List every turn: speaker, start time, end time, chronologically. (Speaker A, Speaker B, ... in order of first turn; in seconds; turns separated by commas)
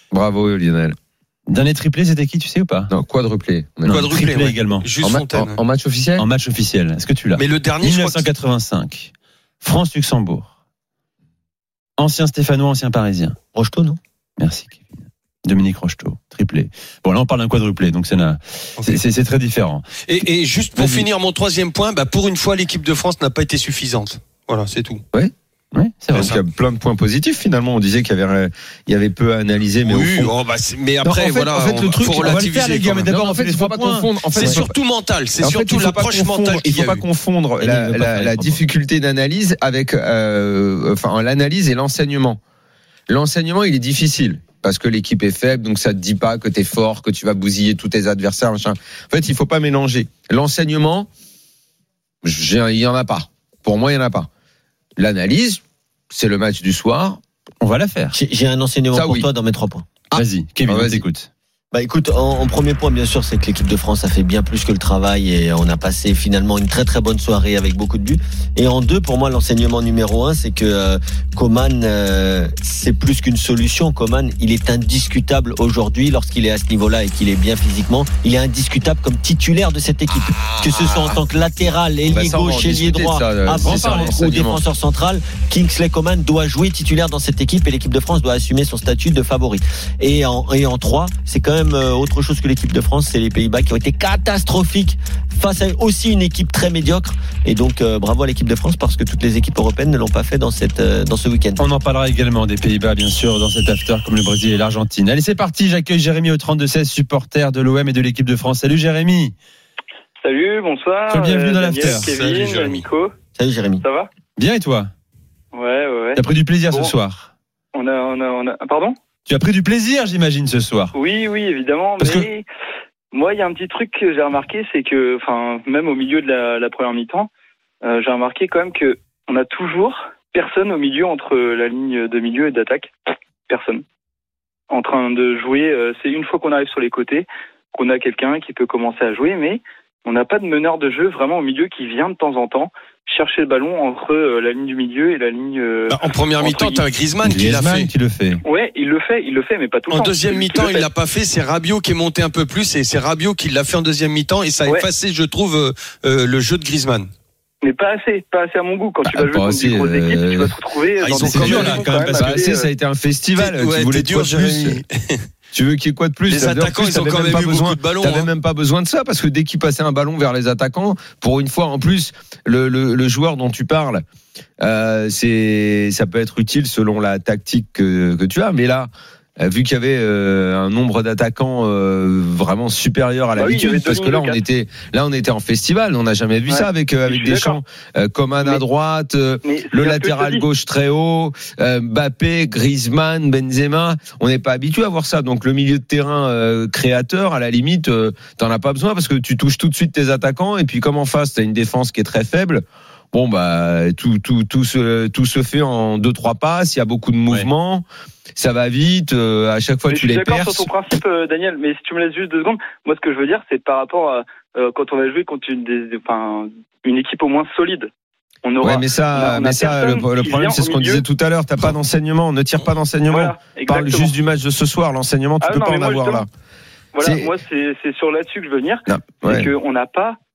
Speaker A: 0.1-0.9, Speaker B: 1.5-2.9, Speaker A: 2.9-4.0, Speaker B: 3.9-4.9, Speaker C: 3.9-5.6, Speaker A: 5.0-6.3, Speaker B: 6.2-9.1, Speaker C: 7.3-8.2, Speaker B: 9.6-10.5, Speaker B: 12.0-13.3, Speaker D: 13.5-14.0, Speaker B: 14.4-19.8, Speaker C: 20.1-25.0, Speaker B: 25.7-26.3, Speaker A: 26.1-30.3, Speaker C: 26.1-26.4, Speaker C: 29.9-33.1, Speaker A: 31.0-32.4, Speaker B: 32.1-34.1, Speaker A: 33.0-34.7, Speaker C: 34.3-37.0, Speaker A: 35.4-42.4, Speaker D: 37.6-38.6, Speaker A: 43.1-51.1, Speaker A: 52.2-54.3, Speaker A: 55.0-57.2, Speaker B: 57.6-58.1, Speaker D: 58.1-59.9, Speaker A: 58.9-59.3, Speaker A: 60.1-61.0, Speaker B: 60.1-61.3, Speaker D: 61.7-101.6, Speaker A: 80.3-81.2, Speaker A: 82.1-84.6, Speaker B: 83.6-84.1, Speaker B: 101.6-109.3, Speaker E: 110.2-113.1, Speaker B: 111.1-112.1, Speaker C: 111.8-112.8, Speaker D: 113.3-113.8, Speaker E: 113.8-114.1, Speaker B: 114.4-114.9, Speaker E: 115.5-116.9, Speaker B: 116.2-117.3, Speaker E: 117.7-119.0, Speaker B: 119.3-120.9, Speaker E: 120.9-122.4, Speaker B: 122.0-122.3, Speaker E: 123.1-127.3, Speaker E: 127.8-132.9, Speaker E: 133.5-133.8, Speaker E: 134.7-146.8, Speaker C: 145.9-147.9, Speaker B: 147.2-148.4, Speaker E: 148.4-150.9, Speaker C: 149.9-157.1, Speaker E: 157.6-162.7, Speaker A: 159.0-160.6, Speaker C: 161.0-162.3, Speaker B: 161.3-162.4, Speaker A: 161.3-164.8, Speaker C: 163.3-165.2, Speaker A: 165.5-174.0, Speaker C: 166.3-168.3, Speaker A: 174.6-207.8, Speaker E: 183.4-184.4, Speaker E: 186.5-187.6, Speaker E: 189.4-190.4, Speaker A: 208.3-210.7, Speaker E: 209.9-217.9, Speaker E: 218.4-221.0, Speaker A: 218.6-226.3, Speaker E: 223.1-224.1, Speaker E: 225.4-226.2, Speaker E: 226.9-230.2, Speaker A: 227.0-227.3, Speaker A: 228.9-229.5